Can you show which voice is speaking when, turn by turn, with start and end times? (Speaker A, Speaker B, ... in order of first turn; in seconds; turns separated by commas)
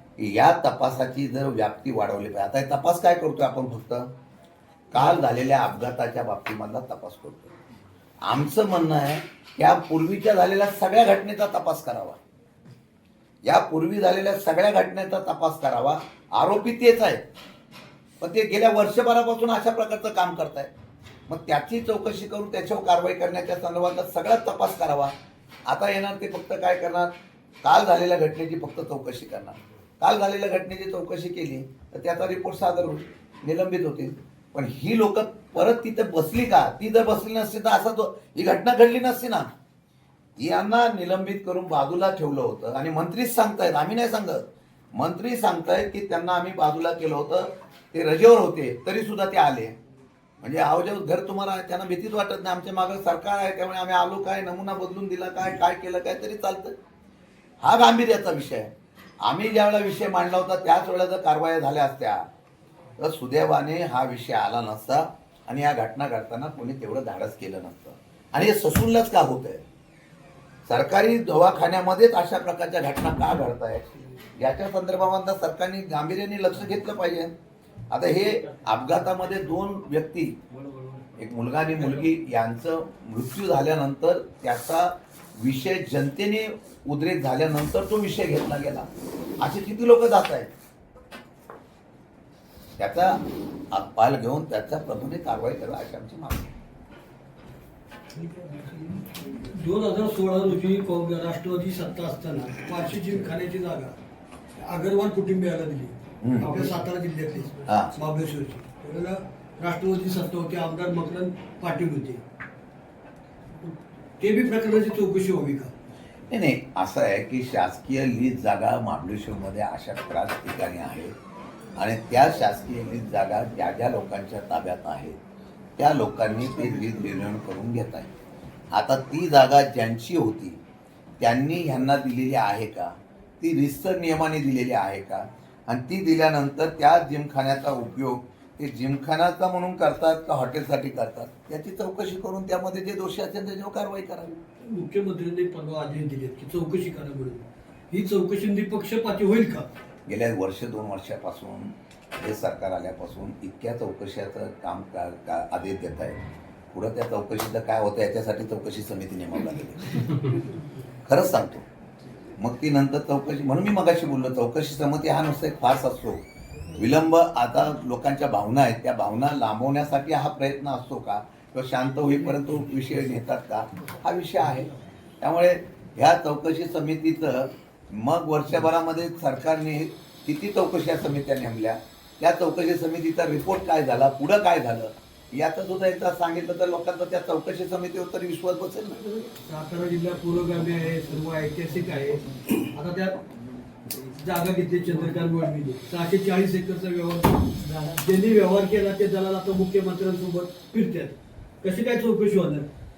Speaker A: 0.2-4.1, Speaker A: 4.9-7.5, Speaker A: 8.2-12.2, Speaker A: 13.4-17.2, Speaker A: 18.2-20.7, Speaker A: 21.3-25.1, Speaker A: 25.7-27.1, Speaker A: 27.6-39.5, Speaker A: 40.4-44.4, Speaker A: 44.9-49.8, Speaker A: 50.4-56.7, Speaker A: 57.6-62.2, Speaker A: 63.0-69.6, Speaker A: 70.7-73.8, Speaker A: 74.4-77.3, Speaker A: 77.9-80.4, Speaker A: 81.2-88.9, Speaker A: 89.4-90.5, Speaker A: 92.8-93.2, Speaker A: 93.7-96.5, Speaker B: 98.1-104.0, Speaker B: 104.6-112.2, Speaker A: 106.2-106.6, Speaker A: 107.7-107.9, Speaker B: 113.6-115.7, Speaker A: 116.3-121.1, Speaker A: 121.8-125.2, Speaker A: 125.8-128.1, Speaker A: 128.7-130.6, Speaker A: 131.2-144.4, Speaker B: 144.6-149.7, Speaker A: 150.1-156.2, Speaker A: 156.7-160.2, Speaker A: 161.0-161.7, Speaker A: 162.3-189.0, Speaker B: 189.1-193.2, Speaker B: 193.9-202.7